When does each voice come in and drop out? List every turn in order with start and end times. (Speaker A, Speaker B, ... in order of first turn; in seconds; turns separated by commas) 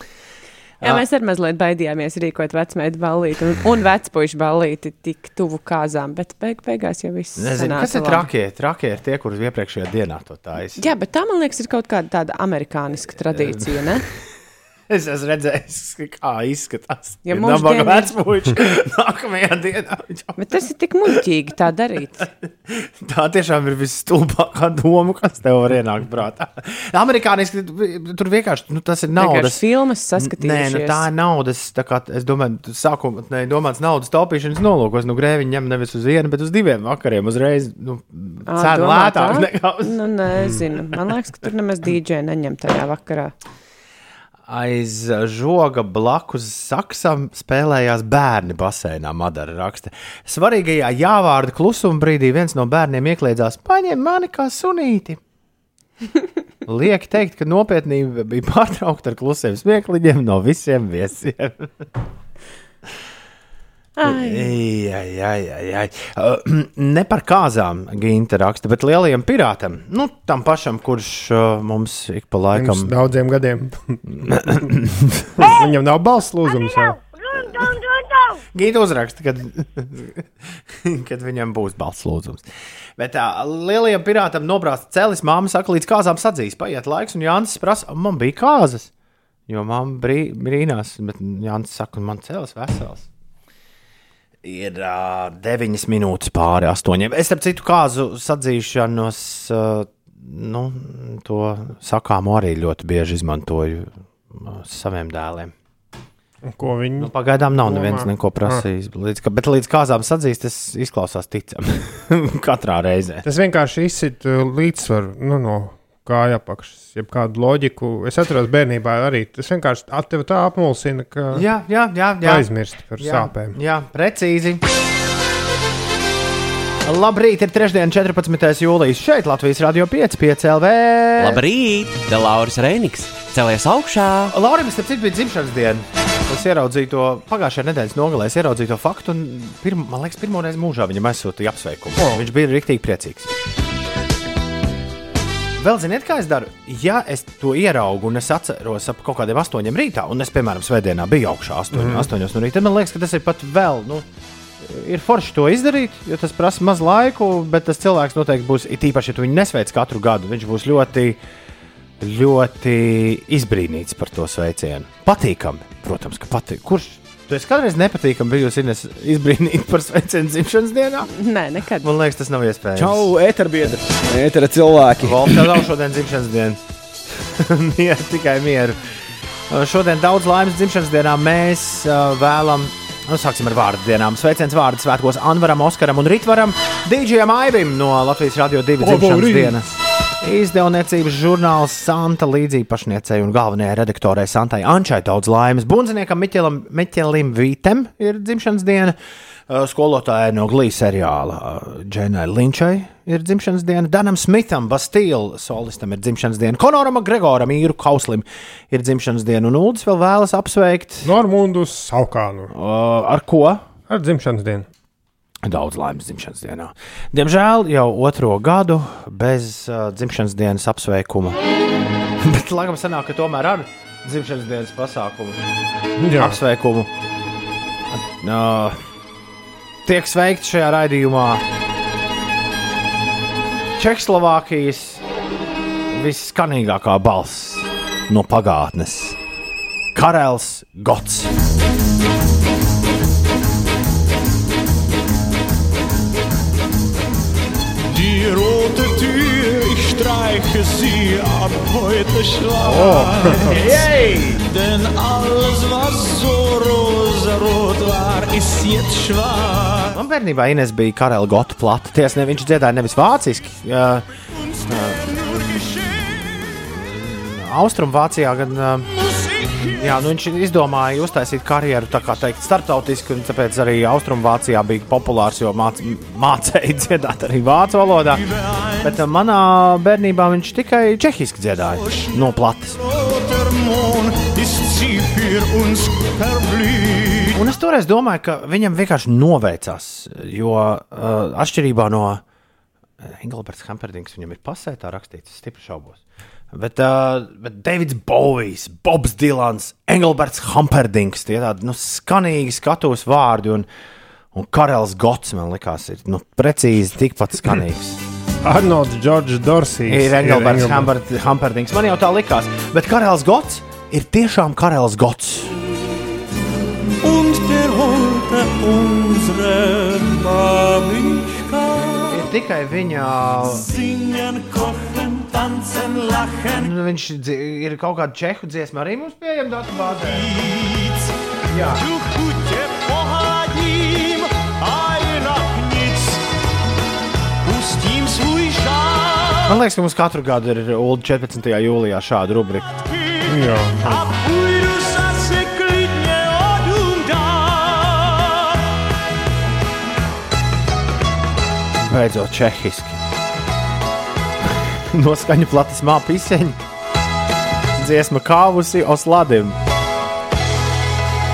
Speaker A: 0.8-8.3, Speaker B: 7.4-10.8, Speaker A: 10.8-14.1, Speaker B: 13.3-14.2, Speaker B: 14.9-20.4, Speaker A: 17.2-18.1, Speaker A: 20.4-22.3, Speaker B: 22.2-29.6, Speaker A: 29.2-31.1, Speaker B: 30.2-40.0, Speaker A: 38.5-43.3, Speaker B: 44.5-55.2, Speaker B: 56.7-61.9, Speaker A: 64.0-64.5, Speaker B: 64.0-72.9, Speaker C: 72.5-74.7, Speaker B: 74.2-75.6, Speaker C: 75.4-77.0, Speaker B: 77.3-82.5, Speaker B: 83.0-88.9, Speaker B: 89.5-93.1, Speaker B: 94.4-105.5, Speaker C: 106.4-108.6, Speaker B: 107.0-113.2, Speaker C: 113.2-121.5, Speaker B: 121.3-124.6, Speaker C: 122.2-123.6, Speaker B: 126.8-131.4, Speaker D: 131.2-134.3, Speaker B: 134.3-143.3, Speaker C: 142.0-142.2, Speaker B: 145.6-154.1, Speaker C: 151.7-152.1, Speaker B: 154.6-161.2, Speaker B: 162.0-171.1, Speaker A: 171.1-171.9, Speaker B: 171.8-173.1, Speaker E: 172.8-175.6, Speaker B: 175.0-176.6, Speaker B: 177.1-178.8, Speaker B: 179.5-199.0, Speaker C: 188.8-189.6, Speaker B: 199.5-211.1, Speaker C: 211.0-212.5, Speaker B: 212.5-213.7, Speaker C: 213.9-214.7, Speaker B: 215.4-221.4, Speaker B: 222.2-225.4, Speaker C: 226.0-226.4, Speaker B: 226.1-226.9, Speaker B: 227.9-228.8, Speaker B: 229.8-231.4, Speaker B: 233.8-235.0, Speaker B: 235.9-239.2, Speaker B: 239.9-241.3, Speaker F: 247.8-260.0, Speaker C: 252.6-253.6, Speaker B: 253.4-254.4, Speaker B: 259.9-264.1, Speaker F: 264.5-266.5, Speaker B: 264.7-265.0, Speaker B: 266.5-268.9, Speaker F: 269.0-269.9, Speaker B: 269.6-278.2, Speaker F: 278.1-279.0, Speaker B: 278.8-282.8, Speaker F: 281.6-287.4, Speaker B: 287.3-292.2, Speaker B: 293.0-303.7, Speaker B: 304.3-308.0, Speaker C: 308.4-310.9, Speaker B: 309.9-315.6, Speaker F: 317.0-322.2, Speaker B: 322.1-323.7, Speaker F: 323.4-326.7, Speaker B: 326.6-330.3, Speaker F: 330.0-336.3, Speaker B: 331.5-331.8, Speaker F: 337.4-339.6, Speaker B: 339.5-342.7, Speaker F: 342.7-348.8, Speaker C: 343.3-343.8, Speaker B: 351.9-353.0, Speaker B: 354.7-356.6, Speaker B: 357.8-359.6